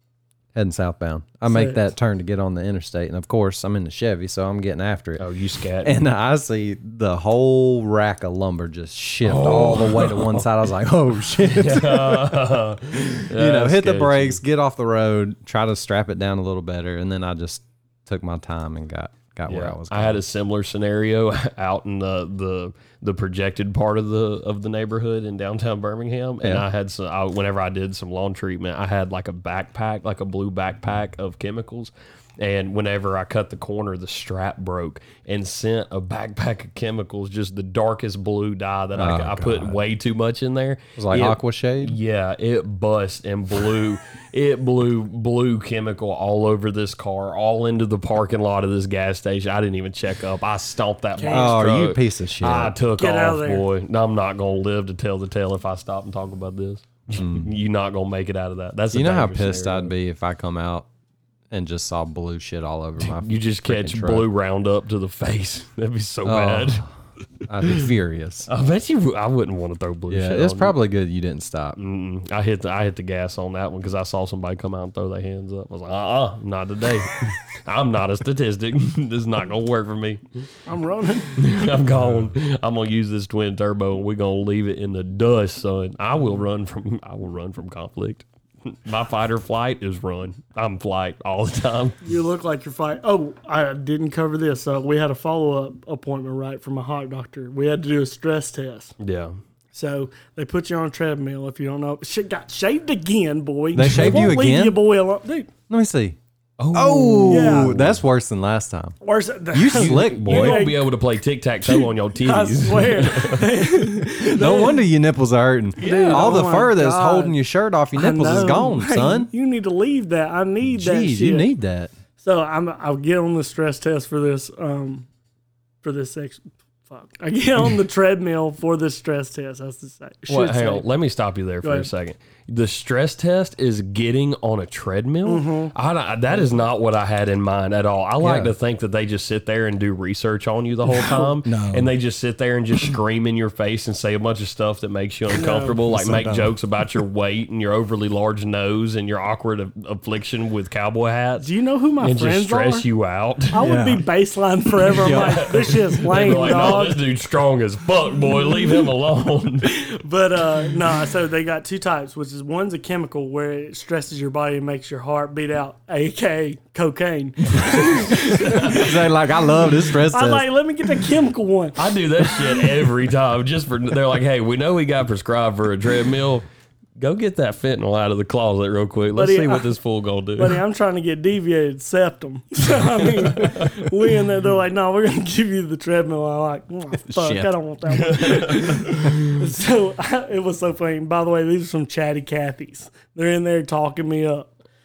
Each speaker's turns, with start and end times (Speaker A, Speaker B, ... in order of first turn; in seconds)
Speaker A: 0.6-5.2, 5.8-12.6, 13.3-20.2, 39.0-39.8, 41.0-42.0, 51.3-52.8, 57.1-57.5, 58.9-60.9, 61.5-64.3, 66.2-66.9, 67.5-68.5, 70.1-71.8, 103.7-104.8, 105.7-106.2, 106.7-109.0, 109.5-110.7, 114.2-119.3, 120.6-121.9, 138.2-138.5, 141.4-141.9, 145.9-146.6, 153.6-154.1, 155.0-155.6, 168.4-170.5, 187.1-187.6
Speaker B: 1.5-1.8, 51.2-51.6, 53.0-53.7, 80.7-81.5, 92.0-98.9, 99.7-105.5, 107.2-107.9, 109.0-110.9, 111.7-114.9, 115.8-117.4, 117.9-121.5, 122.2-125.1, 125.8-130.9, 131.6-131.9, 135.2-135.7, 145.4-145.8, 151.4-152.9, 153.5-157.0, 159.7-169.0, 170.1-172.6, 179.1-179.8, 180.4-194.5
Speaker C: 5.2-6.0, 9.2-10.5, 11.5-14.4, 19.5-59.9, 63.0-66.8, 68.5-70.8, 71.8-80.2, 81.4-92.0, 99.0-99.4, 104.0-104.3, 106.6-107.8, 109.8-113.5, 115.8-116.5, 130.3-151.5, 152.0-153.6, 155.0-159.7, 168.3-168.9, 171.8-176.4, 177.0-180.6, 187.9-189.2